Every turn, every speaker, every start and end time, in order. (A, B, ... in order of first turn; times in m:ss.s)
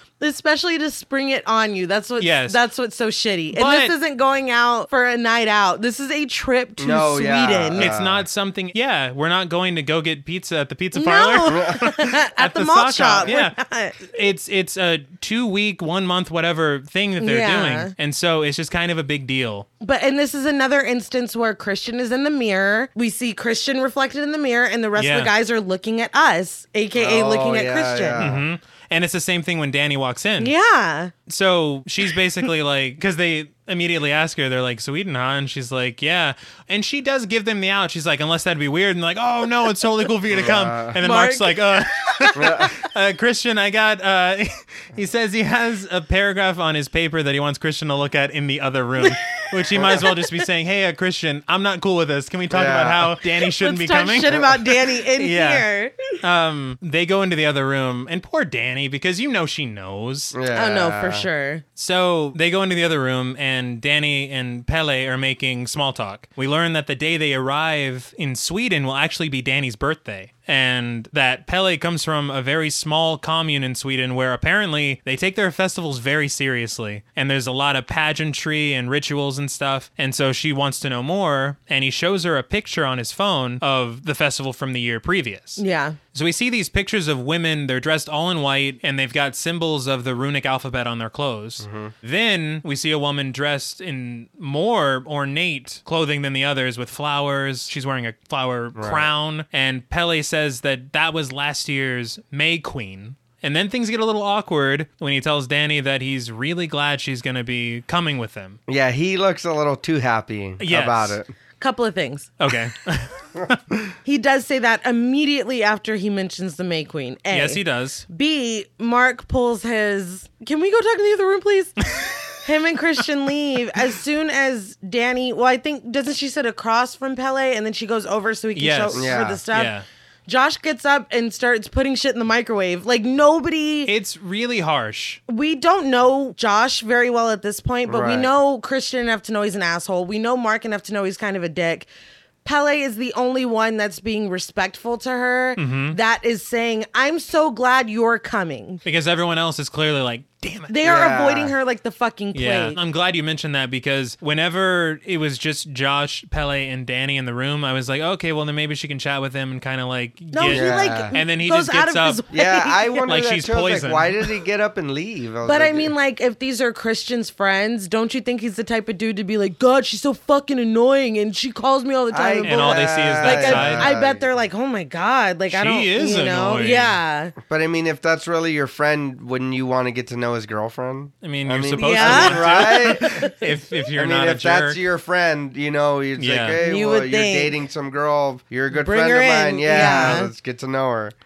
0:00.2-0:07.9 A
0:02.2-0:02.6 B
0:03.5-0:03.9 B
0:06.8-0:08.2 C
0:07.8-0:19.6 B
0:10.9-0:14.0 A
0:11.5-0:11.8 C
0:17.2-0:17.9 A
0:19.8-0:28.3 A
0:25.0-0:25.3 B
0:26.9-0:28.4 C
0:28.2-0:30.5 B
0:30.4-0:31.1 A
0:31.3-1:00.3 B
0:40.3-0:41.0 C
0:41.0-0:42.5 A
0:42.3-0:42.7 C
0:49.7-0:50.1 C
0:49.7-0:50.2 A
0:52.5-0:53.2 C
0:53.4-0:56.2 A
1:00.3-1:01.3 C
1:00.5-1:01.6 A
1:01.8-1:25.6 B
1:25.6-1:26.0 A
1:26.1-1:48.6 B
1:31.6-1:31.9 C
1:38.8-1:39.1 C
1:48.7-1:51.3 C
1:50.6-1:51.2 B
1:51.6-1:52.3 A
1:52.4-1:53.9 B
1:54.0-2:01.8 A
1:57.3-1:58.0 B
2:01.8-2:02.3 B
2:02.4-2:09.7 A
2:08.5-2:09.8 B
2:08.9-2:09.4 C
2:10.3-2:13.9 A
2:13.8-2:15.2 B
2:15.3-2:21.9 A
2:17.9-2:18.3 C
2:22.4-2:28.8 A
2:25.6-2:26.0 B
2:28.8-2:30.7 B
2:30.7-2:32.8 A
2:30.8-2:31.5 C
2:32.3-2:42.2 B
2:40.3-2:43.1 A
2:40.4-2:41.1 C
2:42.3-2:45.9 C
2:43.1-2:44.3 B
2:45.4-2:57.3 A
2:52.1-2:54.3 C
2:52.4-2:53.9 B
2:55.5-2:57.0 B
2:57.4-3:03.3 C
3:01.2-3:04.8 B
3:01.8-3:03.4 A
3:03.9-3:11.1 C
3:06.2-3:06.6 B
3:06.6-3:07.6 A
3:08.7-3:10.3 A
3:09.7-3:10.2 B